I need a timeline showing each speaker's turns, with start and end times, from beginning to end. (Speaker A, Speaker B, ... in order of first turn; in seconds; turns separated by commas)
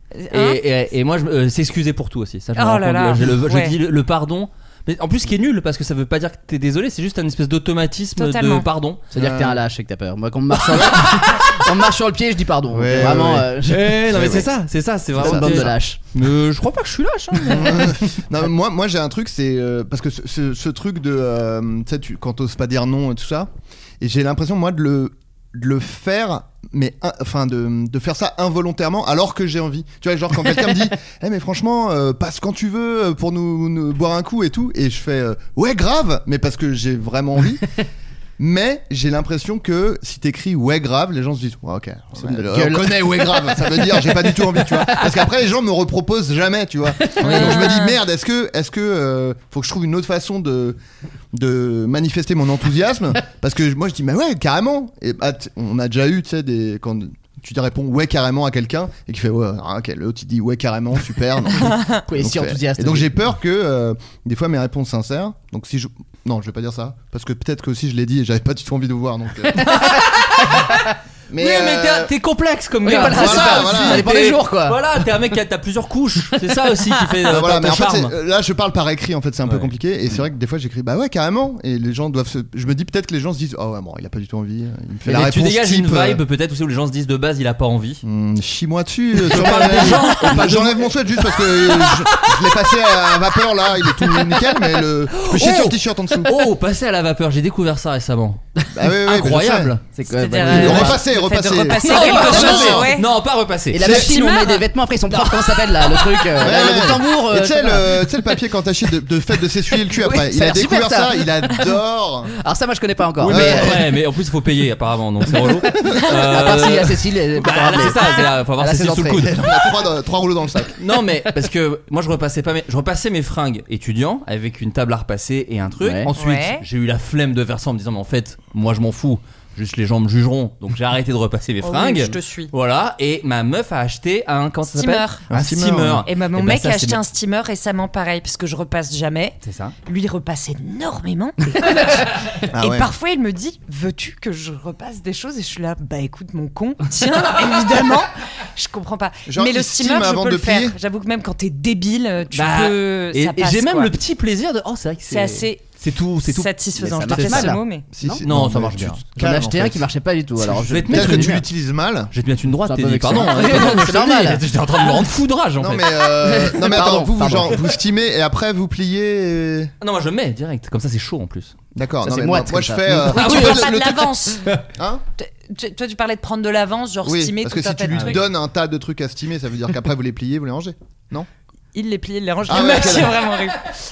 Speaker A: 0.2-0.6, Speaker B: 0.3-9.0, Speaker A: 2.5-3.7, Speaker A: 8.2-8.7, Speaker C: 9.1-13.9, Speaker D: 9.1-9.6, Speaker B: 10.7-11.6, Speaker D: 12.7-14.5, Speaker B: 13.7-18.1, Speaker D: 15.2-15.7, Speaker C: 15.2-16.0, Speaker D: 17.4-23.5, Speaker D: 24.0-37.6, Speaker D: 38.4-50.8, Speaker C: 42.2-45.0, Speaker B: 47.2-47.7, Speaker A: 47.2-48.0, Speaker D: 51.3-69.8, Speaker C: 62.1-63.2, Speaker B: 69.6-70.8, Speaker D: 71.3-72.1, Speaker B: 71.3-78.1, Speaker C: 72.8-74.8, Speaker D: 73.0-74.1, Speaker D: 77.3-86.2, Speaker B: 85.0-88.0, Speaker D: 88.0-96.5, Speaker B: 89.2-92.7, Speaker C: 89.4-90.3, Speaker B: 95.1-100.9, Speaker D: 98.7-99.7, Speaker C: 99.9-101.0, Speaker A: 100.0-103.1, Speaker D: 100.5-102.9, Speaker B: 101.8-104.4, Speaker C: 101.9-102.8, Speaker C: 103.7-108.1, Speaker D: 103.8-104.1, Speaker A: 103.9-104.6, Speaker B: 105.1-106.2, Speaker D: 106.4-112.3, Speaker C: 109.9-111.2, Speaker C: 112.4-113.8, Speaker B: 113.2-119.5, Speaker D: 113.3-113.9, Speaker C: 116.2-119.2, Speaker D: 119.2-120.7, Speaker B: 120.8-137.0, Speaker C: 125.8-126.1, Speaker A: 126.1-126.6, Speaker A: 131.6-132.5, Speaker A: 134.7-135.2, Speaker D: 135.3-136.1, Speaker A: 136.0-153.9, Speaker B: 139.4-139.7, Speaker D: 142.5-142.9, Speaker D: 149.3-150.8, Speaker B: 152.3-156.5, Speaker A: 155.1-157.8, Speaker C: 156.8-158.2, Speaker B: 157.1-157.5, Speaker D: 157.9-159.8, Speaker B: 158.2-159.0, Speaker C: 159.2-161.4, Speaker B: 160.7-161.4, Speaker D: 160.8-162.1, Speaker B: 162.1-165.9, Speaker C: 162.7-164.4, Speaker D: 165.6-169.7, Speaker C: 166.2-167.6, Speaker B: 169.8-171.5, Speaker D: 171.7-174.1, Speaker C: 172.1-173.1, Speaker A: 173.1-174.4, Speaker B: 173.1-174.6, Speaker D: 174.8-175.0, Speaker A: 175.2-178.2, Speaker D: 177.0-181.3, Speaker B: 177.9-178.2, Speaker A: 181.7-183.8, Speaker D: 182.4-183.3